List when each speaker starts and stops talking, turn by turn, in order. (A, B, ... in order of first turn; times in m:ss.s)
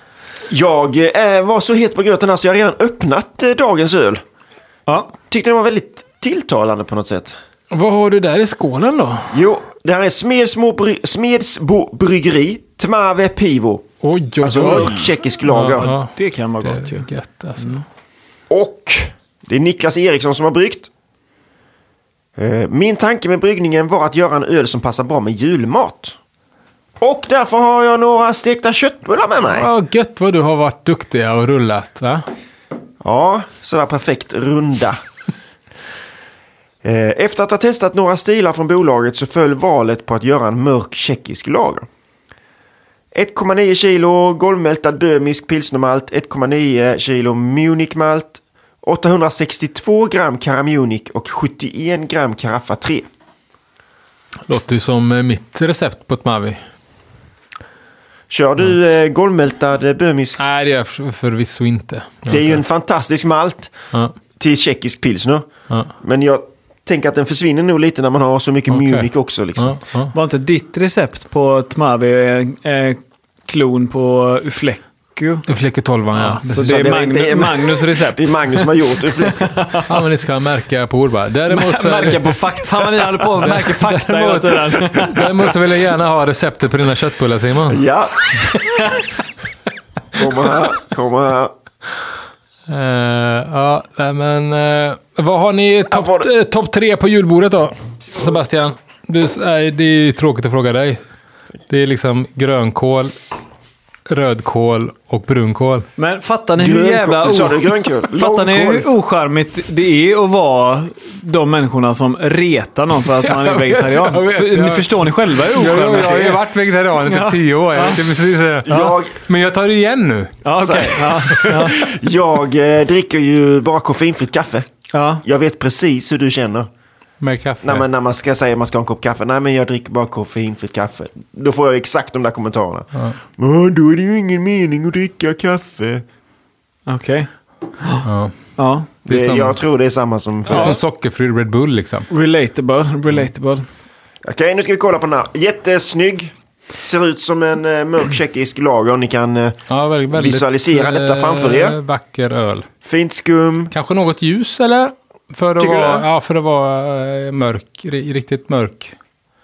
0:00.5-0:04.2 A
0:04.9-0:05.1 B
0:05.3-0:07.4 A
0:07.7-0:09.4 C
0:09.3-0:13.8 A
0:14.0-0:16.1 C
0:14.4-0:15.9 A
0:15.9-0:17.1 B
0:16.6-0:17.8 C
0:18.5-0:20.9 A
0:22.4-0:26.2 A
0:27.0-0:29.7 A
0:29.5-0:32.2 C
0:33.0-0:35.0 A
0:36.8-0:41.8 A
0:43.1-0:53.1 A
0:54.5-0:56.6 C
0:58.3-1:00.4 A
1:00.4-1:02.6 C
1:02.3-1:03.7 A
1:04.4-1:05.5 A
1:06.0-1:09.8 A
1:08.7-1:10.1 C
1:10.1-1:15.5 B
1:15.5-1:17.0 C
1:16.1-1:19.9 B
1:16.6-1:19.5 A
1:19.9-1:27.8 C
1:21.5-1:25.6 B
1:27.7-1:28.2 A
1:28.5-1:29.0 B
1:30.2-1:31.5 A
1:32.7-1:41.0 C
1:35.9-1:36.3 A
1:41.7-1:43.1 C
1:44.1-1:45.9 C
1:46.0-1:58.0 B
1:46.6-1:48.9 A
1:53.2-2:00.3 C
1:58.7-1:59.2 A
1:58.7-1:59.0 B
2:00.4-2:01.8 B
2:00.6-2:04.7 A
2:01.0-2:01.7 C
2:04.9-2:05.2 B
2:05.2-2:06.7 A
2:07.2-2:07.9 C
2:07.6-2:16.0 A
2:16.9-2:17.3 B
2:18.0-2:18.3 C
2:18.6-2:18.9 B
2:19.1-2:19.6 C
2:19.1-2:20.8 A
2:20.5-2:22.1 C
2:20.5-2:20.8 B
2:22.1-2:23.6 B
2:24.2-2:29.6 A
2:29.7-2:32.7 C
2:30.1-2:31.8 A
2:32.8-2:33.7 A
2:33.7-2:38.9 C
2:35.6-2:36.1 A